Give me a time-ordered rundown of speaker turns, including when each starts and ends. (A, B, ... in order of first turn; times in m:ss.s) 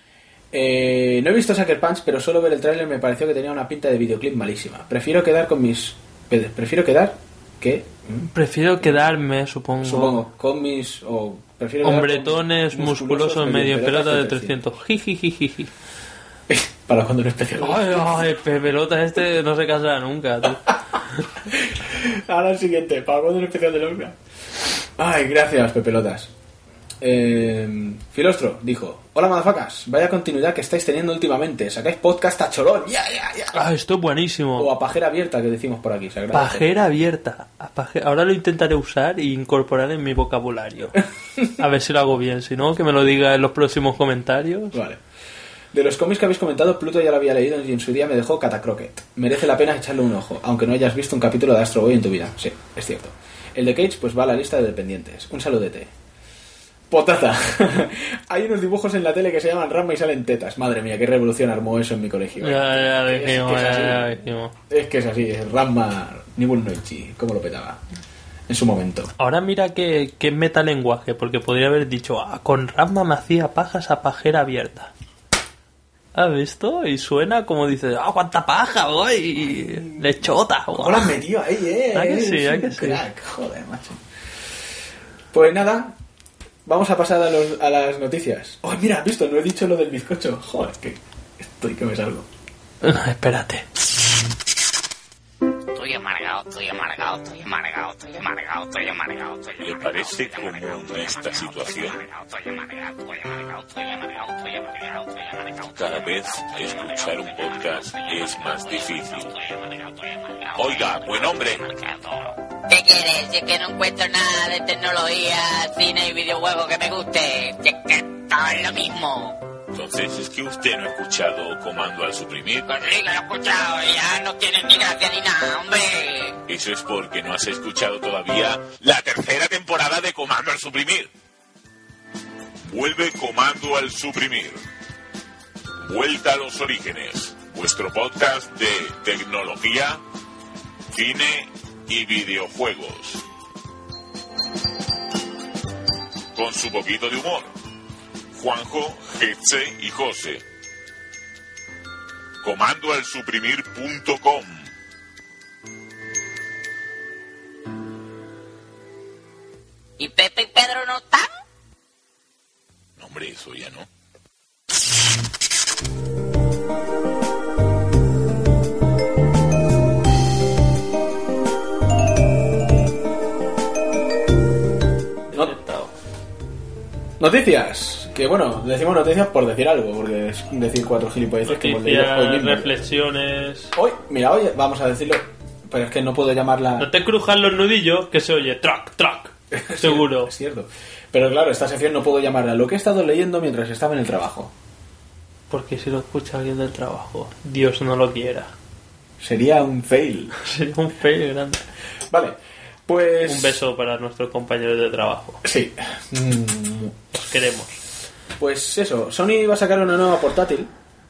0:00.5-0:09.0 A
0:08.3-0:10.2 B
0:09.8-0:14.6 A
0:11.8-0:15.7 B
0:16.5-0:18.2 A
0:17.6-0:21.3 B
0:21.5-0:24.2 A
0:25.0-0:26.3 A
0:27.0-0:33.6 A
0:33.5-0:34.7 B
0:34.6-0:36.7 A
0:36.3-0:41.0 B
0:41.5-0:44.8 B
0:44.7-0:45.0 A
0:45.7-0:55.9 A
0:56.9-1:04.2 A
1:02.4-1:04.5 B
1:04.7-1:07.8 A
1:08.5-1:09.1 A
1:09.2-1:14.9 B
1:16.2-1:21.2 B
1:19.6-1:20.2 A
1:20.7-1:24.0 A
1:21.9-1:23.0 B
1:25.3-1:25.9 A
1:26.6-1:32.3 A
1:32.8-1:33.6 B
1:35.8-1:40.9 C
1:39.6-1:42.0 D
1:42.3-1:44.9 C
1:45.7-1:49.3 D
1:50.6-1:51.6 D
1:52.7-1:59.4 C
1:59.7-2:02.8 D
2:02.7-2:06.4 C
2:06.5-2:11.1 D
2:12.7-2:14.6 D
2:15.8-2:20.0 D
2:20.9-2:23.2 D
2:26.3-2:27.5 D
2:28.4-2:30.4 D
2:32.4-2:34.7 D
2:40.0-2:41.3 C
2:43.0-2:43.9 D
2:55.3-2:55.9 B
2:57.2-3:02.7 A
3:01.5-3:03.8 B
3:03.8-3:06.9 A
3:06.8-3:10.3 B
3:09.5-3:14.5 A
3:15.5-3:18.5 B
3:19.2-3:20.4 A
3:20.4-3:21.6 B
3:22.1-3:23.6 A
3:23.2-3:25.4 B
3:25.4-3:27.0 A
3:27.1-3:27.8 B
3:28.4-3:30.7 A